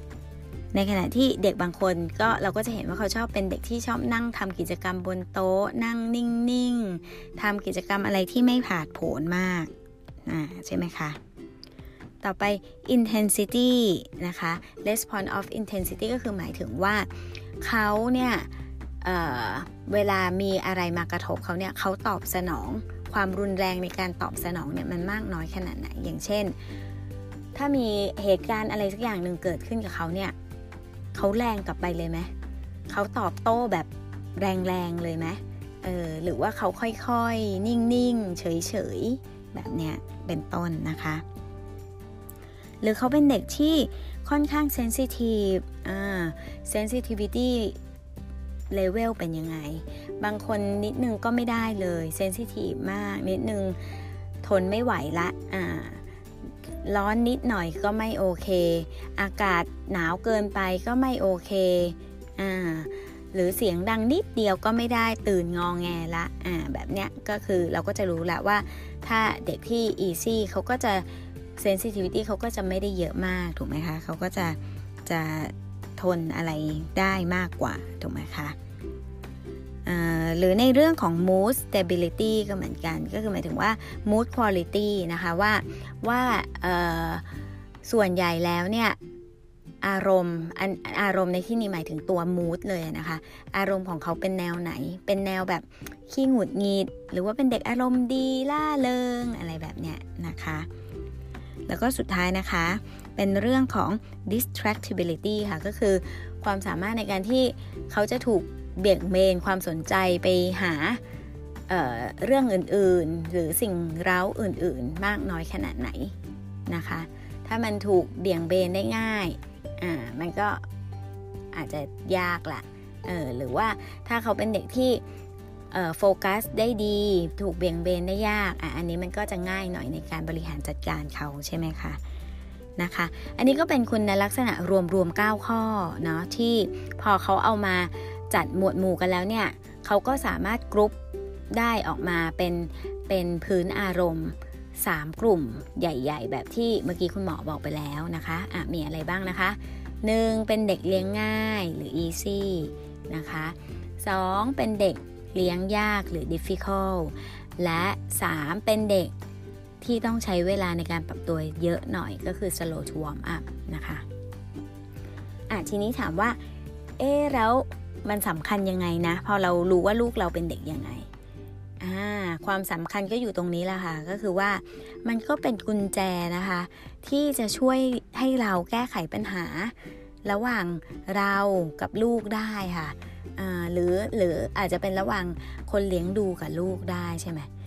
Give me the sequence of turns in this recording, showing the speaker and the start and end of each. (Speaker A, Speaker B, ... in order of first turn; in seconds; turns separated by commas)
Speaker A: 0.7-9.7, Speaker A: 10.2-11.2, Speaker A: 12.2-17.1, Speaker A: 17.6-18.5, Speaker A: 19.0-26.5, Speaker A: 27.5-30.3, Speaker A: 31.1-32.3, Speaker A: 32.9-41.2, Speaker A: 42.8-47.8, Speaker A: 48.7-53.8, Speaker A: 54.4-56.0, Speaker A: 56.8-78.5, Speaker A: 79.8-87.2, Speaker A: 87.8-89.0, Speaker A: 89.8-100.7, Speaker A: 101.7-111.0, Speaker A: 111.7-116.1, Speaker A: 116.7-120.6, Speaker A: 121.5-125.0, Speaker A: 125.7-132.0, Speaker A: 132.8-140.9, Speaker A: 141.5-159.1, Speaker A: 159.8-164.0, Speaker A: 165.5-166.4, Speaker A: 167.0-171.1, Speaker A: 171.8-187.5